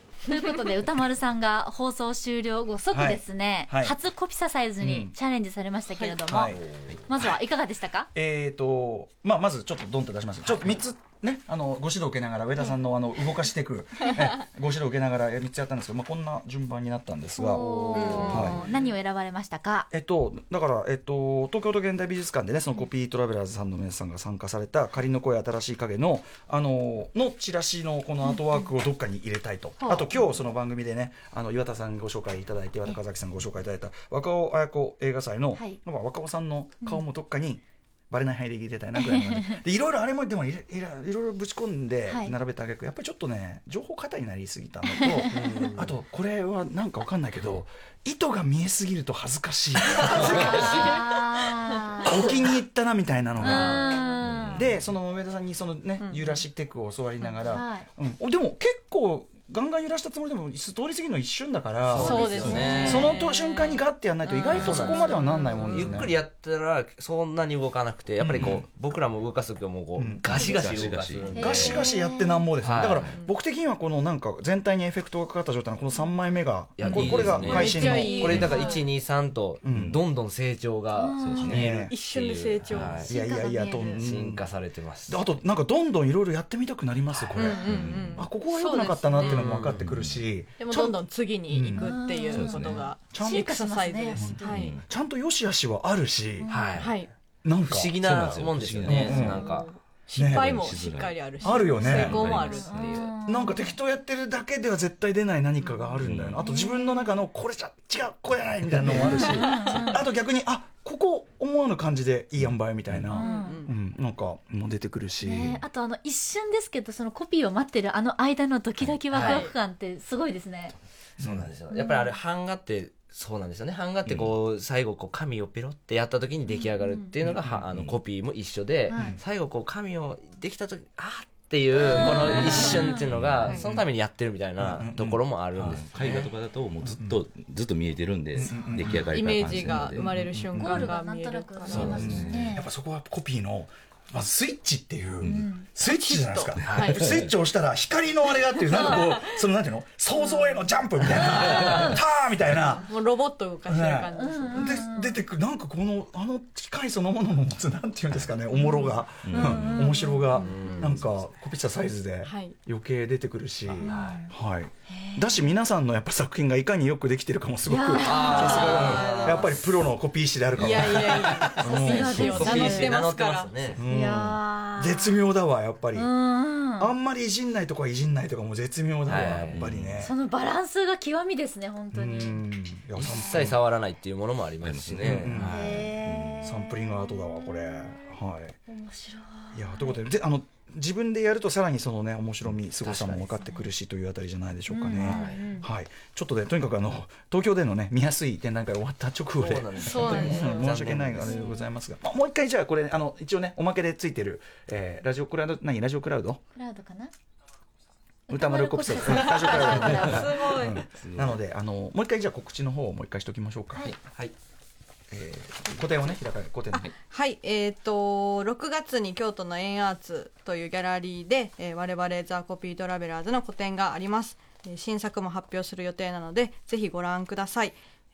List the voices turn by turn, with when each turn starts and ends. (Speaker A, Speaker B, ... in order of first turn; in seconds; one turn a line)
Speaker A: 0.3-6.5
Speaker B: 2.9-4.0
Speaker B: 4.8-5.2
Speaker C: 5.9-6.2
Speaker B: 6.3-6.6
Speaker D: 6.5-7.0
Speaker A: 7.1-8.1
Speaker B: 8.1-18.6
Speaker A: 17.4-19.9
Speaker C: 17.9-18.7
Speaker D: 18.2-18.6
Speaker B: 19.9-51.0
Speaker A: 28.3-28.7
Speaker A: 29.8-30.2
Speaker A: 39.0-39.6
Speaker A: 42.1-42.3
Speaker A: 45.0-45.3
Speaker D: 45.3-45.9
Speaker D: 50.0-50.7
Speaker A: 50.1-52.4
Speaker B: 52.0-53.9
Speaker A: 53.4-54.7
Speaker D: 53.5-53.8
Speaker E: 54.2-54.9
Speaker B: 54.5-66.2
Speaker C: 56.0-56.4
Speaker A: 57.3-57.9
Speaker D: 61.9-63.1
Speaker C: 62.0-63.8
Speaker A: 62.1-63.1
Speaker D: 64.3-71.9
Speaker A: 64.4-65.9
Speaker B: 68.2-68.6
Speaker B: 70.0-70.4
Speaker E: 70.2-71.5
Speaker B: 71.3-78.5
Speaker A: 71.3-72.5
Speaker D: 72.6-73.1
Speaker C: 73.0-73.3
Speaker D: 76.8-83.1
Speaker E: 76.8-78.5
Speaker C: 77.3-78.9
Speaker A: 77.5-78.9
Speaker B: 79.6-80.0
Speaker E: 79.7-80.1
Speaker A: 80.9-81.5
Speaker E: 81.2-81.7
Speaker B: 81.4-81.9
Speaker C: 81.6-83.0
Speaker A: 83.0-84.1
Speaker B: 83.1-84.4
Speaker D: 83.9-85.2
Speaker B: 85.1-91.9
Speaker C: 87.3-89.5
Speaker E: 87.6-88.3
Speaker D: 89.2-89.8
Speaker E: 89.7-90.2
Speaker C: 90.6-94.8
Speaker A: 91.7-94.6
Speaker E: 92.3-92.8
Speaker B: 93.1-93.6
Speaker B: 94.1-96.5
Speaker E: 94.5-94.8
Speaker A: 96.4-96.8
Speaker D: 96.5-97.1
Speaker C: 96.8-97.1
Speaker B: 97.4-98.0
Speaker D: 97.6-99.7
Speaker E: 97.7-99.6
Speaker B: 98.8-99.5
Speaker C: 99.1-103.0
Speaker B: 100.2-100.7
Speaker E: 100.3-101.3
Speaker B: 101.4-102.3
Speaker A: 101.8-103.8
Speaker E: 101.8-103.1
Speaker D: 102.7-103.1
Speaker B: 103.2-115.6
Speaker C: 105.6-106.0
Speaker E: 106.0-106.4
Speaker A: 106.4-107.1
Speaker D: 108.8-109.3
Speaker A: 109.2-110.0
Speaker A: 113.1-113.6
Speaker C: 113.1-113.7
Speaker A: 115.2-120.8
Speaker D: 119.1-119.5
Speaker C: 119.2-119.6
Speaker D: 121.2-136.3
Speaker B: 121.2-121.5
Speaker A: 121.7-122.2
Speaker E: 124.0-124.3
Speaker A: 126.5-127.1
Speaker E: 127.2-128.0
Speaker A: 128.9-129.2
Speaker B: 128.9-129.2
Speaker A: 132.0-133.7
Speaker E: 132.3-133.6
Speaker B: 133.6-133.8
Speaker B: 134.6-135.2
Speaker E: 135.6-140.9
Speaker B: 136.9-137.2
Speaker B: 138.3-139.0
Speaker C: 138.9-142.1
Speaker B: 139.9-140.7
Speaker A: 140.6-142.7
Speaker E: 141.7-142.5
Speaker B: 141.8-152.9
Speaker A: 145.2-145.7
Speaker C: 145.8-147.1
Speaker D: 146.8-147.2
Speaker C: 148.7-149.2
Speaker A: 148.8-149.1
Speaker A: 151.3-152.0
Speaker D: 151.4-151.8
Speaker C: 152.8-154.8
Speaker B: 153.7-172.8
Speaker A: 154.1-155.2
Speaker A: 158.5-160.4
Speaker E: 159.2-159.9
Speaker C: 160.3-161.0
Speaker D: 160.3-161.2
Speaker C: 162.2-162.6
Speaker D: 163.7-164.2
Speaker A: 163.8-164.3
Speaker A: 164.9-165.5
Speaker A: 167.7-168.8
Speaker D: 168.0-169.6
Speaker C: 168.1-169.5
Speaker C: 170.6-173.7
Speaker D: 170.9-171.2
Speaker A: 171.6-173.0
Speaker D: 171.7-173.8
Speaker B: 173.8-176.1
Speaker A: 173.9-175.3
Speaker A: 175.9-176.9
Speaker B: 176.8-180.1
Speaker D: 179.1-179.7
Speaker E: 179.4-180.1
Speaker A: 180.0-182.5
Speaker B: 181.9-183.6
Speaker D: 182.9-185.5
Speaker E: 184.6-186.5
Speaker B: 185.0-185.7
Speaker A: 185.5-190.0
Speaker B: 186.4-188.6
Speaker B: 189.5-206.4
Speaker D: 192.8-193.4
Speaker A: 194.7-195.7
Speaker D: 195.0-195.5
Speaker D: 199.4-201.4
Speaker C: 199.8-200.7
Speaker A: 201.2-201.7
Speaker A: 206.5-207.1
Speaker A: 208.3-210.3
Speaker B: 208.3-213.9
Speaker C: 209.1-210.8
Speaker E: 209.8-211.4
Speaker D: 213.9-214.3
Speaker B: 215.1-216.9
Speaker C: 217.1-227.8